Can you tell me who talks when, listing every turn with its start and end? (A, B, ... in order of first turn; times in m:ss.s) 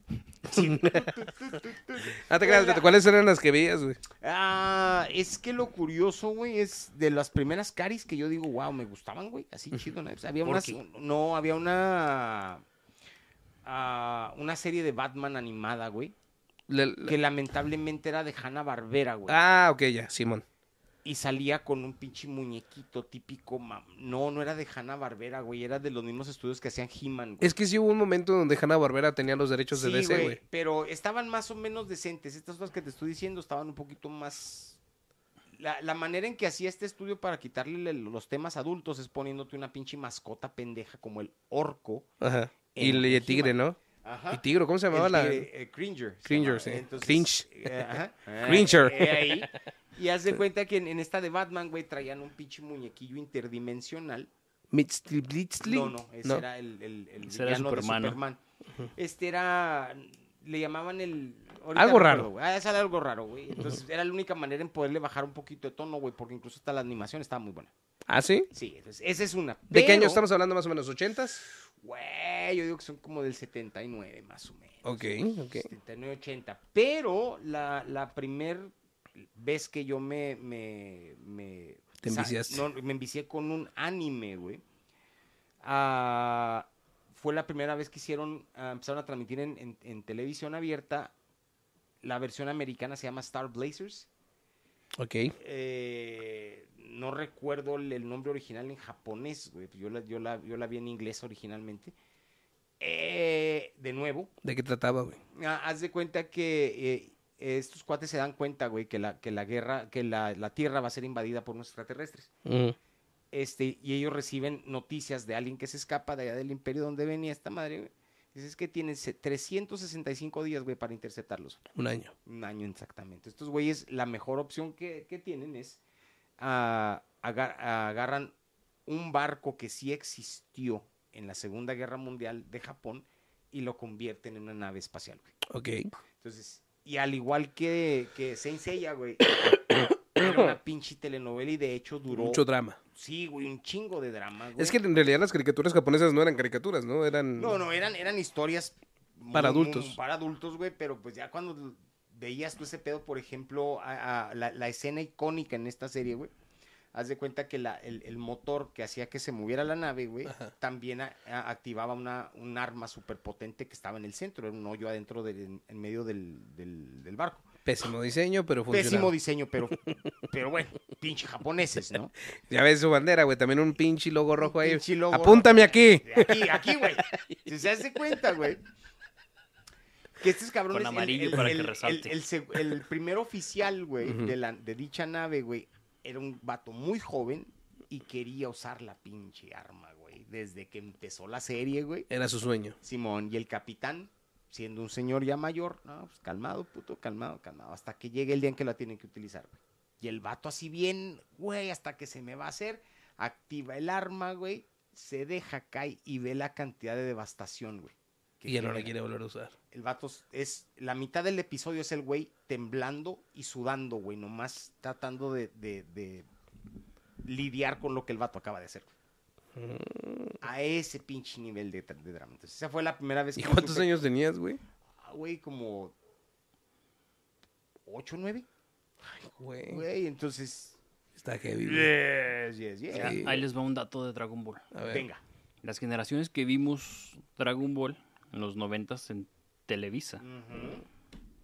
0:00.4-0:01.1 A
0:00.4-0:02.9 B
0:02.2-0:04.0 A
0:04.2-0:12.6 B
0:10.4-0:10.8 C
0:13.6-0:16.1 B
0:16.7-0:17.2 A
0:17.0-0:19.4 B
0:19.3-0:20.4 A
0:21.0-0:27.5 B
0:27.4-0:30.4 A
0:29.7-0:34.8 B
0:35.6-0:42.1 B
0:42.2-0:43.8 A
0:42.7-0:54.3 B
0:44.3-0:45.5 A
0:46.2-0:47.8 A
0:48.4-0:49.5 A
0:54.7-0:56.4 A
0:55.6-0:58.4 B
0:57.3-0:58.2 C
0:59.0-1:07.7 B
1:01.8-1:02.3 A
1:08.1-1:08.5 A
1:08.5-1:10.2 B
1:09.7-1:11.4 A
1:11.8-1:24.6 B
1:14.8-1:15.7 A
1:22.0-1:22.6 A
1:25.6-1:31.1 B
1:32.0-1:34.1 B
1:35.0-1:35.4 A
1:35.4-1:41.9 B
1:42.8-1:44.3 B
1:44.4-1:45.2 A
1:45.3-1:52.3 B
1:52.4-1:52.8 A
1:53.3-2:01.6 B
2:01.8-2:02.1 A
2:02.3-2:05.8 B
2:06.4-2:08.3 B
2:08.9-2:15.4 B
2:15.5-2:15.9 A
2:16.2-2:22.4 B
2:19.7-2:20.5 A
2:22.1-2:22.8 A
2:22.9-2:24.8 B
2:24.6-2:27.6 A
2:27.4-2:36.3 B
2:29.3-2:30.0 A
2:36.9-2:47.5 B
2:40.3-2:40.5 A
2:47.6-2:49.1 A
2:48.7-2:52.1 B
2:52.5-2:56.9 A
2:54.4-2:58.6 B
3:00.2-3:12.1 B
3:00.7-3:02.2 C
3:04.0-3:04.3 A
3:12.1-3:12.8 A
3:12.8-3:28.9 B
3:28.5-3:29.5 A
3:29.7-3:36.3 B
3:37.2-3:38.9 B
3:39.6-3:40.4 A
3:40.4-3:43.9 B
3:43.4-3:44.6 A
3:45.0-3:45.9 B
3:47.9-3:48.5 B
3:49.1-3:49.8 A
3:49.7-3:50.8 B
3:51.2-3:51.9 A
3:51.6-3:53.3 B
3:52.9-3:54.6 C
3:53.0-3:53.4 A
3:54.7-3:55.1 A
3:54.9-3:55.2 B
3:55.6-4:00.2 C
4:00.2-4:00.8 B